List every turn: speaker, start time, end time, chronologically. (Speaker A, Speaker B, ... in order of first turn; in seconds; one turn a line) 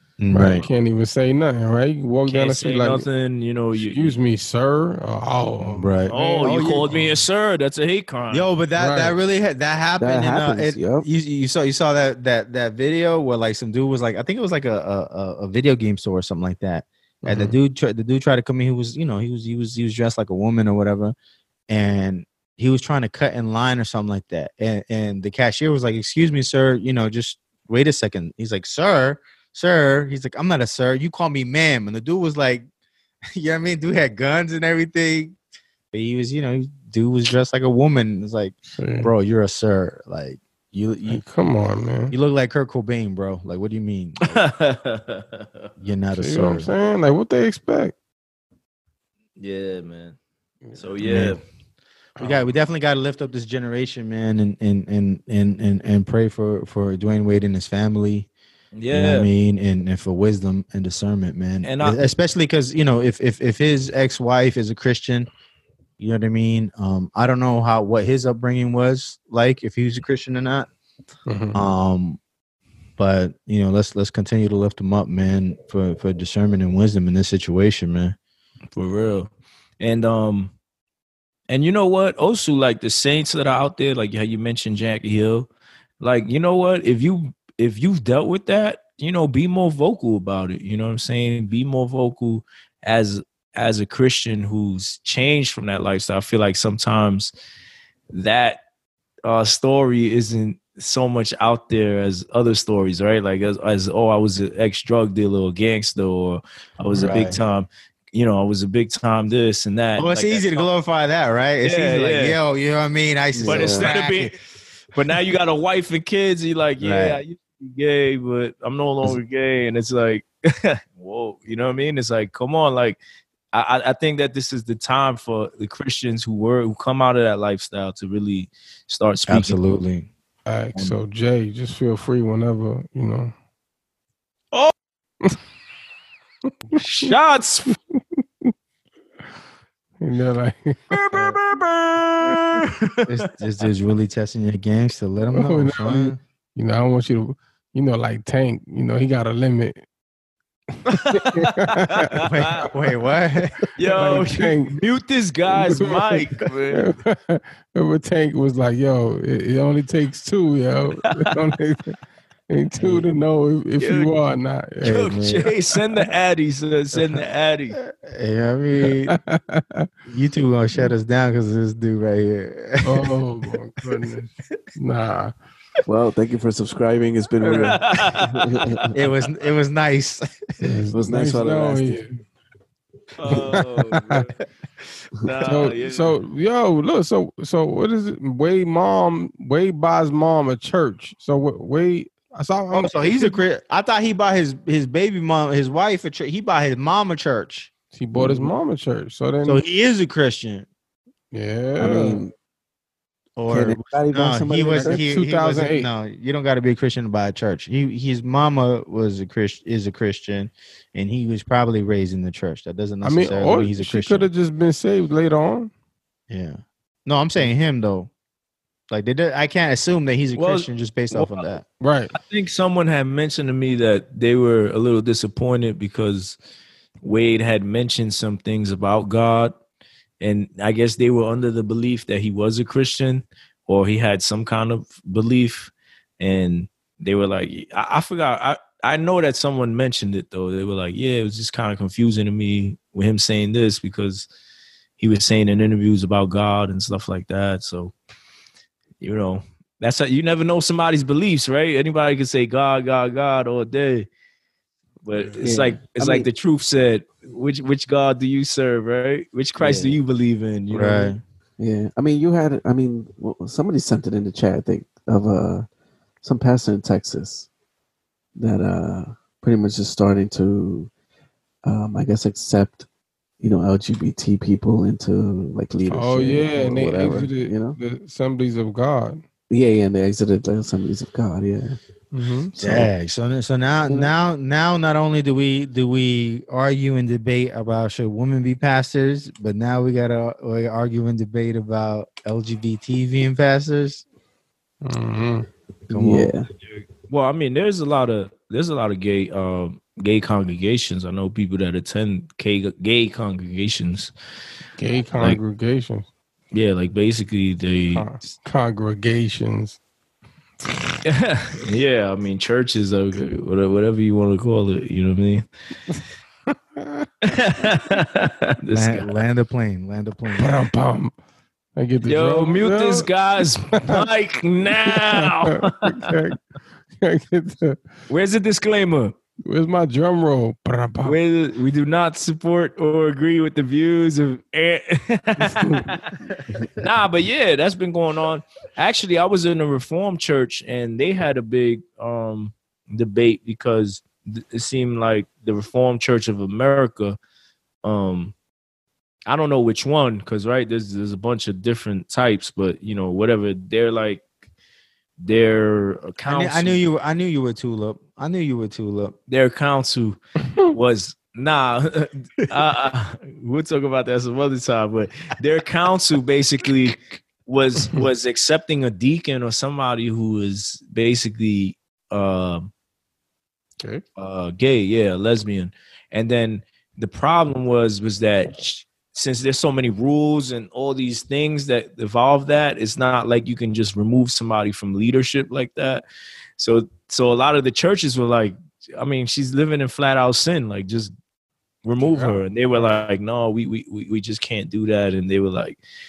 Speaker A: 0.2-0.7
Speaker B: 0.3-3.1
Speaker C: 2.3-4.2
Speaker B: 3.8-7.2
Speaker A: 5.6-6.9
Speaker C: 6.1-8.5
Speaker A: 8.3-21.1
Speaker B: 8.8-9.2
Speaker D: 10.0-11.1
Speaker B: 17.3-17.6
Speaker A: 21.7-32.6
Speaker A: 33.3-35.4
Speaker A: 35.9-41.2
Speaker B: 38.8-39.1
Speaker B: 41.1-42.1
Speaker A: 42.1-44.4
Speaker C: 44.3-45.7
Speaker A: 45.8-46.7
Speaker B: 46.1-48.0
Speaker C: 49.4-50.2
Speaker C: 50.8-51.4
Speaker A: 51.0-51.4
Speaker B: 52.2-52.5
Speaker A: 52.2-58.3
Speaker C: 58.7-59.3
Speaker A: 58.9-65.3
Speaker C: 61.6-62.0
Speaker A: 66.0-70.7
Speaker B: 71.3-71.6
Speaker A: 71.5-72.2
Speaker A: 73.0-78.2
Speaker C: 78.8-80.5
Speaker C: 81.5-85.5
Speaker C: 86.0-97.3
Speaker C: 98.1-98.6
Speaker C: 99.2-110.7
Speaker A: 106.9-107.4
Speaker A: 110.0-114.4
Speaker C: 111.6-112.4
Speaker D: 113.3-113.9
Speaker C: 113.5-114.3
Speaker C: 114.9-123.0
Speaker A: 116.8-117.2
Speaker C: 123.5-129.6
Speaker A: 129.3-130.1
Speaker B: 130.5-133.3
Speaker B: 136.7-137.1
Speaker C: 136.8-137.8
Speaker B: 140.0-141.0
Speaker C: 140.9-143.1
Speaker A: 143.1-146.2
Speaker B: 145.3-149.8
Speaker B: 150.8-152.1
Speaker C: 150.9-152.7
Speaker A: 152.2-153.6
Speaker C: 153.8-156.9
Speaker B: 153.9-154.8
Speaker B: 155.5-161.9
Speaker C: 161.0-161.3
Speaker B: 162.5-165.0
Speaker A: 162.8-163.0
Speaker C: 163.8-164.2
Speaker A: 164.8-165.5
Speaker C: 164.8-167.8
Speaker A: 167.9-169.2
Speaker B: 168.8-169.9
Speaker A: 170.1-173.1
Speaker B: 172.8-175.3
Speaker D: 175.9-178.9
Speaker A: 177.4-177.8
Speaker C: 177.6-178.8
Speaker A: 178.9-180.3
Speaker B: 180.6-182.2
Speaker D: 180.9-182.0
Speaker C: 183.2-184.3
Speaker B: 183.6-184.2
Speaker C: 185.2-186.2
Speaker B: 185.4-193.4
Speaker A: 192.7-197.7
Speaker B: 197.9-199.6
Speaker D: 198.2-198.5
Speaker A: 199.4-200.7
Speaker B: 201.3-202.2
Speaker D: 201.8-202.3
Speaker A: 203.4-214.3
Speaker D: 203.5-205.0
Speaker B: 204.8-205.9
Speaker B: 213.0-215.7
Speaker A: 216.3-218.1
Speaker A: 218.9-221.6
Speaker C: 220.4-221.6
Speaker B: 221.8-222.1
Speaker C: 222.1-226.4
Speaker C: 227.0-229.5
Speaker C: 230.2-244.3
Speaker C: 245.0-247.9
Speaker C: 249.0-254.1
Speaker C: 255.1-261.1
Speaker B: 255.1-255.4
Speaker D: 255.4-256.3
Speaker A: 259.6-260.0
Speaker A: 260.7-261.2
Speaker D: 261.6-265.7
Speaker D: 266.2-267.5
Speaker D: 268.4-270.9
Speaker D: 271.6-272.9
Speaker D: 273.4-277.8
Speaker B: 275.9-279.2
Speaker D: 279.5-281.8
Speaker B: 282.1-282.6
Speaker A: 282.6-294.0
Speaker D: 282.6-282.9
Speaker B: 294.8-295.5
Speaker A: 295.9-296.4
Speaker D: 295.9-296.5
Speaker C: 297.1-304.1
Speaker B: 304.8-306.1
Speaker C: 306.5-308.1
Speaker B: 307.9-309.8
Speaker C: 311.0-315.5
Speaker B: 316.8-317.1
Speaker C: 317.2-319.1
Speaker A: 318.7-320.6
Speaker B: 320.4-321.1
Speaker B: 321.8-324.1
Speaker C: 322.0-326.2
Speaker B: 324.8-326.4
Speaker B: 327.0-327.8
Speaker C: 328.1-329.1
Speaker B: 329.5-331.2
Speaker C: 331.0-347.2
Speaker B: 335.4-336.0
Speaker C: 347.8-348.4
Speaker C: 349.3-354.2
Speaker C: 355.2-356.8
Speaker A: 356.2-359.2
Speaker C: 359.3-372.7
Speaker C: 374.2-386.0
Speaker C: 386.6-391.1
Speaker C: 391.8-395.8
Speaker B: 392.0-393.0